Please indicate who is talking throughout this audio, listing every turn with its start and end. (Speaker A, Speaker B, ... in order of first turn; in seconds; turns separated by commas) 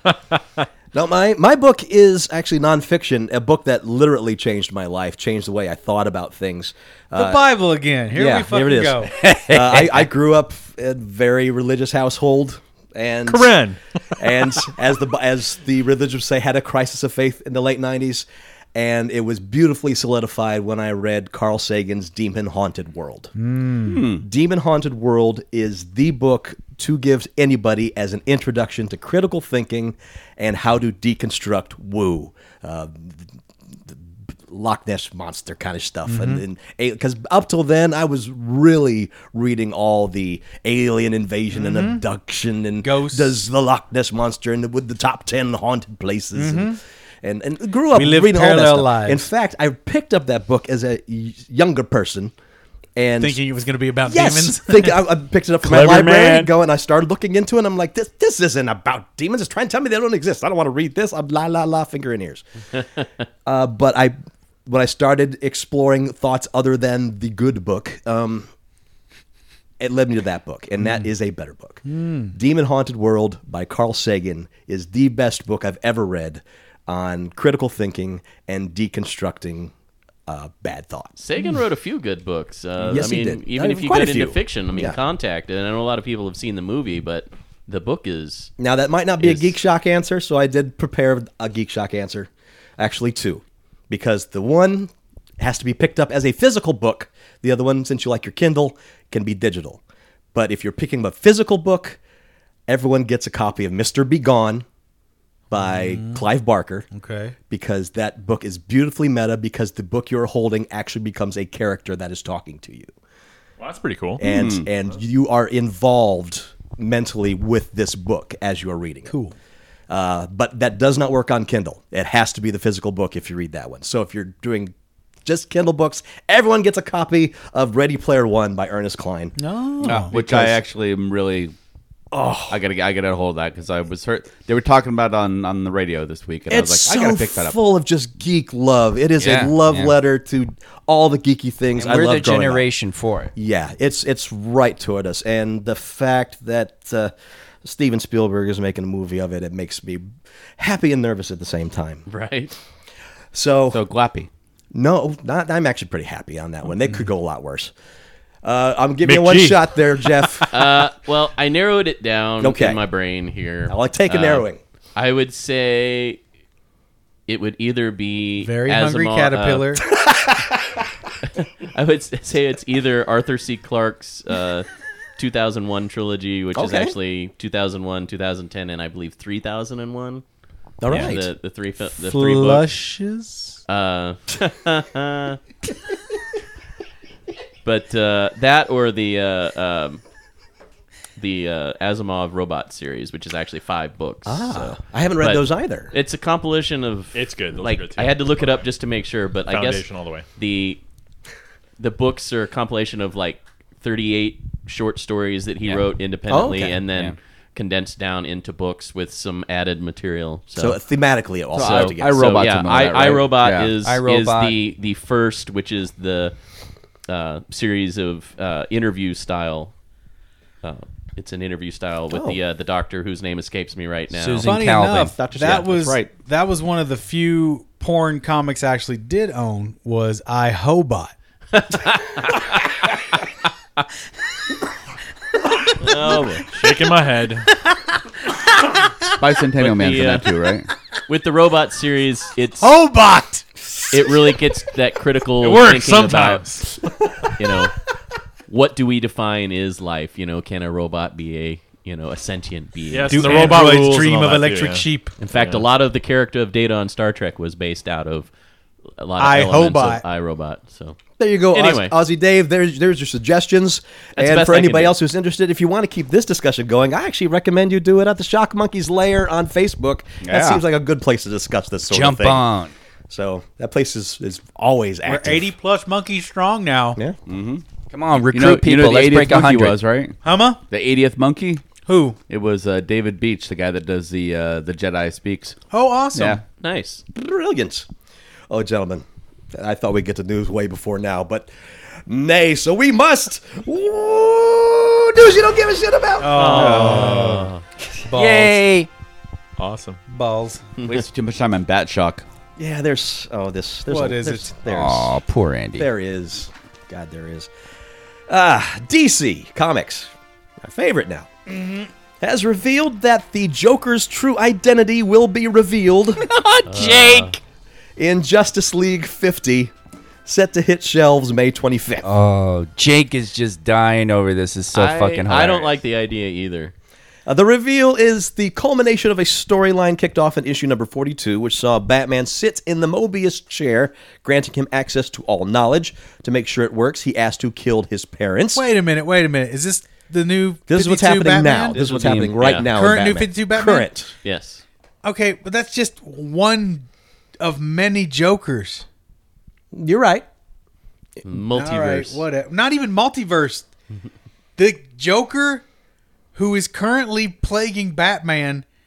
Speaker A: 0.9-7.4, Speaker B: 7.2-9.1, Speaker A: 8.1-13.6, Speaker C: 9.2-10.0, Speaker D: 13.3-13.8, Speaker A: 14.2-23.3, Speaker B: 23.4-24.0, Speaker E: 23.8-24.2, Speaker A: 24.1-33.2, Speaker A: 33.9-52.3, Speaker B: 36.1-36.4, Speaker B: 41.5-42.0, Speaker B: 42.8-43.4, Speaker B: 46.3-46.8, Speaker B: 47.9-49.3, Speaker A: 53.0-53.4, Speaker B: 53.2-55.0, Speaker A: 54.1-62.4, Speaker B: 56.1-56.4, Speaker A: 63.5-64.2, Speaker A: 64.7-68.5, Speaker A: 69.8-71.8, Speaker B: 71.8-72.3, Speaker A: 72.3-79.7, Speaker A: 80.3-81.1, Speaker F: 81.2-88.5, Speaker A: 82.8-85.0, Speaker A: 88.6-99.8, Speaker F: 89.2-89.5, Speaker A: 100.3-102.0, Speaker A: 102.7-104.7, Speaker A: 105.5-106.9, Speaker B: 105.6-106.2, Speaker B: 106.9-107.3, Speaker A: 107.5-112.9, Speaker D: 113.6-114.2, Speaker A: 114.2-119.1, Speaker E: 114.2-114.7, Speaker B: 119.1-119.3, Speaker A: 119.9-124.7, Speaker A: 125.2-129.3, Speaker B: 129.4-130.2, Speaker E: 129.8-131.5, Speaker A: 130.1-130.4, Speaker A: 132.1-132.6, Speaker E: 132.5-137.6, Speaker A: 136.5-142.7, Speaker C: 139.2-139.9, Speaker C: 141.8-143.3, Speaker A: 143.4-147.1, Speaker A: 147.6-150.1, Speaker A: 150.6-152.0, Speaker F: 152.1-152.6, Speaker A: 153.3-153.8, Speaker E: 153.7-154.3, Speaker A: 154.7-157.7, Speaker A: 158.4-160.5, Speaker D: 159.1-159.6, Speaker F: 160.5-166.2, Speaker A: 162.4-162.8, Speaker A: 163.7-164.6, Speaker F: 167.3-169.8, Speaker B: 168.4-169.8, Speaker A: 170.0-170.7, Speaker F: 171.4-180.2, Speaker A: 176.6-176.9, Speaker A: 180.8-181.3, Speaker F: 180.8-182.7, Speaker B: 182.0-183.6, Speaker F: 183.7-185.4, Speaker F: 187.7-190.0, Speaker F: 191.2-199.9, Speaker A: 194.3-195.9, Speaker D: 197.1-198.7, Speaker D: 199.5-200.3, Speaker F: 200.4-200.8, Speaker F: 201.8-210.8, Speaker A: 206.4-206.7, Speaker A: 210.6-212.2, Speaker E: 211.5-213.7, Speaker F: 211.6-216.3, Speaker C: 213.8-214.6, Speaker F: 217.1-219.7, Speaker F: 220.6-224.5, Speaker A: 222.1-222.4, Speaker C: 224.1-225.2, Speaker B: 224.4-231.1, Speaker E: 225.2-226.1, Speaker F: 231.5-232.6, Speaker F: 235.8-236.5, Speaker D: 236.4-237.5, Speaker E: 239.2-240.7, Speaker F: 239.6-240.3, Speaker F: 241.1-242.7, Speaker B: 242.6-243.6, Speaker F: 243.9-246.6, Speaker D: 245.4-246.9, Speaker F: 247.4-247.8, Speaker F: 248.5-253.7, Speaker D: 252.9-255.7, Speaker B: 253.1-255.1, Speaker F: 255.2-258.3, Speaker F: 259.0-261.0, Speaker B: 259.2-260.0, Speaker A: 261.2-272.4, Speaker F: 261.5-261.9, Speaker F: 264.2-264.9, Speaker E: 270.2-270.6, Speaker C: 271.9-272.7, Speaker A: 273.1-275.5, Speaker B: 275.1-277.0, Speaker E: 277.3-277.6, Speaker C: 277.9-279.8, Speaker E: 278.3-280.2, Speaker B: 280.2-280.6, Speaker E: 280.7-281.6, Speaker B: 281.9-282.2, Speaker E: 282.3-285.6, Speaker B: 285.7-286.4, Speaker E: 286.1-286.4, Speaker F: 286.6-287.0, Speaker A: 287.1-287.9, Speaker A: 288.5-291.5, Speaker A: 292.1-296.7, Speaker B: 296.2-297.5, Speaker D: 296.4-297.2, Speaker E: 296.5-297.5, Speaker F: 296.6-297.6, Speaker B: 298.1-298.6, Speaker C: 298.1-298.9, Speaker D: 299.6-300.0, Speaker B: 300.1-300.6, Speaker E: 300.8-302.2, Speaker A: 302.6-305.2, Speaker B: 303.9-304.5, Speaker C: 304.7-305.9, Speaker A: 305.8-307.5, Speaker A: 308.3-311.3, Speaker B: 311.5-311.9, Speaker A: 312.2-316.3, Speaker C: 316.2-317.4, Speaker F: 316.7-317.4, Speaker A: 318.0-319.7, Speaker A: 320.3-322.1, Speaker C: 322.0-325.8, Speaker F: 324.7-326.7, Speaker A: 327.3-338.6, Speaker B: 338.5-341.8, Speaker A: 340.7-344.1, Speaker C: 341.7-342.4, Speaker F: 342.4-342.7, Speaker B: 342.7-343.9, Speaker F: 344.2-344.6, Speaker B: 345.0-346.9, Speaker B: 347.4-348.9, Speaker A: 349.7-350.3, Speaker F: 351.2-352.2, Speaker B: 351.5-353.7, Speaker B: 354.6-355.6, Speaker B: 356.4-358.6